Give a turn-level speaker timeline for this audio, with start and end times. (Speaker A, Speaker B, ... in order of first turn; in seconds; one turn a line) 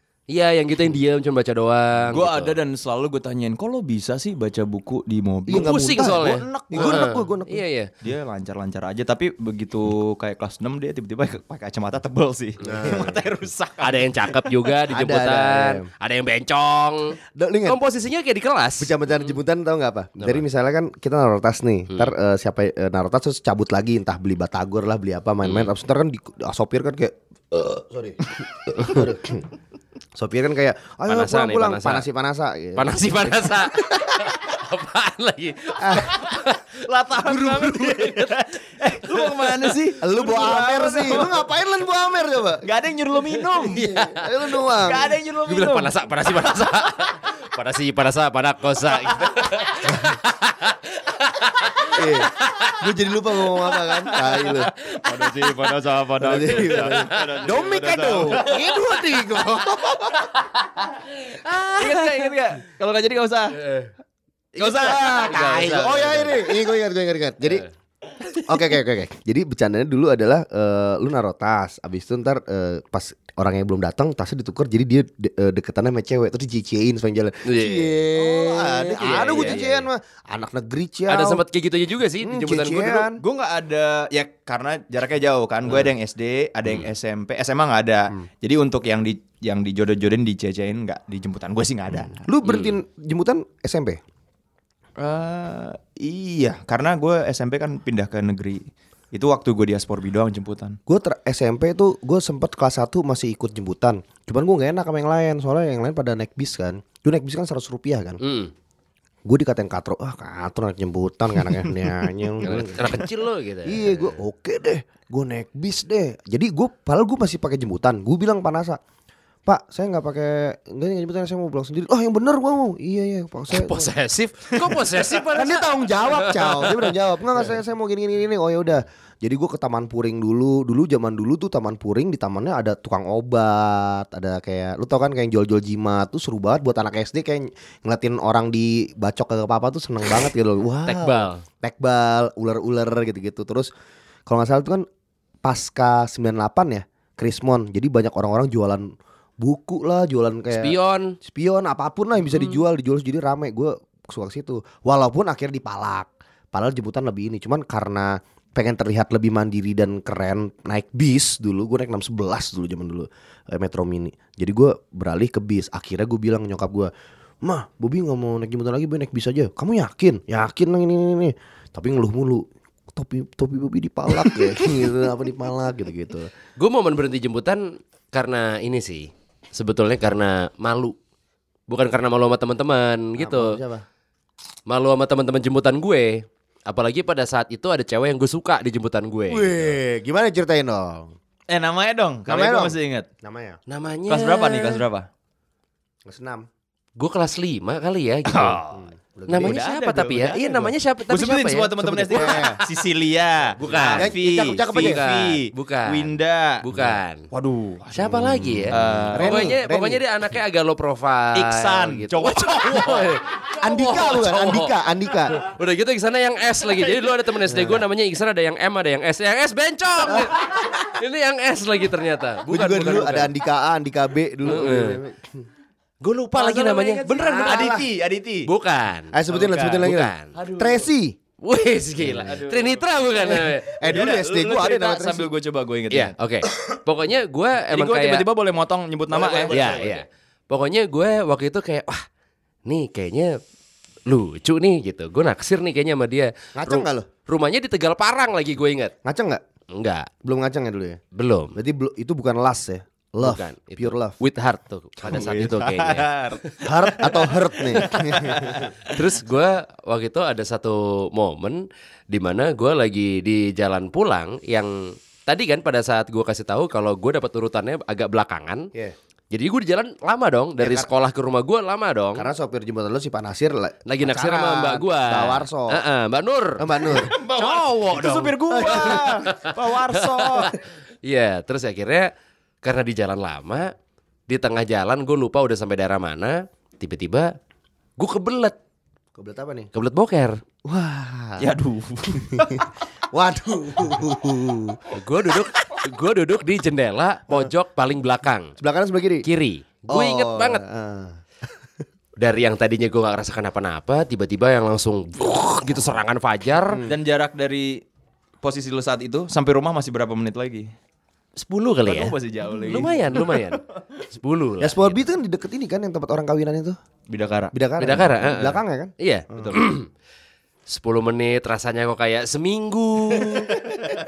Speaker A: 0.3-2.6
Speaker B: 2.1-7.1
Speaker C: 5.5-7.6
Speaker A: 5.5-7.9
Speaker B: 8.0-14.6
Speaker A: 12.6-13.1
Speaker C: 12.7-13.2
Speaker A: 13.8-18.9
Speaker C: 14.9-15.9
Speaker C: 17.4-17.8
Speaker C: 18.8-29.5
Speaker A: 25.4-25.7
Speaker C: 30.1-34.3
Speaker A: 31.1-32.0
Speaker A: 32.8-36.7
Speaker C: 35.8-36.2
Speaker B: 36.9-41.5
Speaker C: 37.3-38.0
Speaker A: 37.4-38.4
Speaker C: 40.0-42.6
Speaker B: 42.6-43.8
Speaker A: 43.5-44.2
Speaker C: 43.6-45.1
Speaker B: 44.6-46.7
Speaker A: 45.5-52.8
Speaker C: 51.9-54.7
Speaker A: 53.9-59.5
Speaker B: 55.0-58.5
Speaker C: 56.2-60.3
Speaker A: 60.2-62.3
Speaker B: 61.8-63.6
Speaker A: 63.6-63.9
Speaker B: 64.6-65.7
Speaker A: 64.6-66.4
Speaker C: 64.7-67.7
Speaker C: 68.4-81.4
Speaker A: 77.4-79.6
Speaker B: 78.4-79.9
Speaker A: 81.1-83.0
Speaker C: 82.2-83.2
Speaker B: 83.2-92.3
Speaker C: 92.1-94.0
Speaker A: 92.4-92.7
Speaker B: 95.0-100.8
Speaker C: 100.9-108.2
Speaker A: 108.2-108.5
Speaker C: 109.2-113.0
Speaker A: 112.4-114.2
Speaker C: 113.6-118.8
Speaker C: 119.5-123.9
Speaker A: 123.5-126.8
Speaker C: 125.2-143.7
Speaker A: 140.9-141.4
Speaker C: 144.3-144.9
Speaker C: 145.4-166.9
Speaker A: 150.5-151.1
Speaker C: 167.4-176.3
Speaker A: 176.6-180.9
Speaker A: 181.7-183.6
Speaker C: 183.2-183.8
Speaker A: 184.7-189.8
Speaker C: 189.3-191.1
Speaker B: 191.5-193.1
Speaker C: 192.2-193.6
Speaker A: 193.7-194.8
Speaker B: 194.1-195.1
Speaker C: 196.1-196.5
Speaker A: 197.0-202.5
Speaker B: 198.3-198.6
Speaker C: 198.7-199.6
Speaker B: 199.4-209.5
Speaker C: 201.8-202.6
Speaker A: 203.6-204.1
Speaker C: 203.7-205.0
Speaker A: 204.7-207.3
Speaker A: 207.9-214.7
Speaker C: 209.1-210.0
Speaker B: 211.3-213.1
Speaker C: 213.6-215.4
Speaker A: 215.3-223.3
Speaker C: 217.5-217.8
Speaker C: 220.1-220.3
Speaker C: 222.5-225.4
Speaker A: 224.4-225.0
Speaker A: 226.0-227.7
Speaker B: 226.3-228.5
Speaker C: 227.2-227.9
Speaker A: 228.4-229.1
Speaker C: 229.1-231.2
Speaker B: 229.3-230.9
Speaker A: 229.8-230.3
Speaker A: 231.4-233.7
Speaker B: 232.0-232.8
Speaker C: 233.2-235.3
Speaker B: 233.8-236.1
Speaker A: 235.9-238.2
Speaker B: 237.7-240.0
Speaker C: 239.1-239.9
Speaker A: 239.5-242.0
Speaker A: 242.7-243.4
Speaker A: 244.1-248.9
Speaker C: 246.6-247.1
Speaker C: 249.0-249.4
Speaker A: 249.7-250.1
Speaker C: 250.2-251.0
Speaker A: 251.1-251.6
Speaker C: 251.6-254.1
Speaker A: 253.2-256.6
Speaker B: 255.0-256.4
Speaker C: 256.6-258.7
Speaker B: 256.9-259.0
Speaker A: 257.8-268.7
Speaker A: 269.3-272.2
Speaker C: 270.6-270.9
Speaker C: 272.2-275.8
Speaker A: 273.9-282.1
Speaker C: 276.6-277.1
Speaker B: 276.9-280.5
Speaker C: 278.5-279.4
Speaker A: 282.6-283.7
Speaker A: 284.3-287.4
Speaker A: 288.0-288.6
Speaker C: 289.1-289.7
Speaker A: 289.7-290.4
Speaker C: 290.6-291.5
Speaker B: 291.4-292.6
Speaker C: 292.1-294.9
Speaker A: 294.9-298.5
Speaker C: 298.6-299.2
Speaker A: 299.2-300.6
Speaker C: 299.9-301.2
Speaker A: 302.2-306.8
Speaker C: 306.6-307.0
Speaker B: 306.9-307.8
Speaker B: 308.4-310.7
Speaker A: 311.4-315.0
Speaker B: 311.9-313.8
Speaker C: 314.6-316.8
Speaker B: 317.1-317.5
Speaker C: 317.5-319.5
Speaker A: 317.8-319.9
Speaker A: 320.7-323.6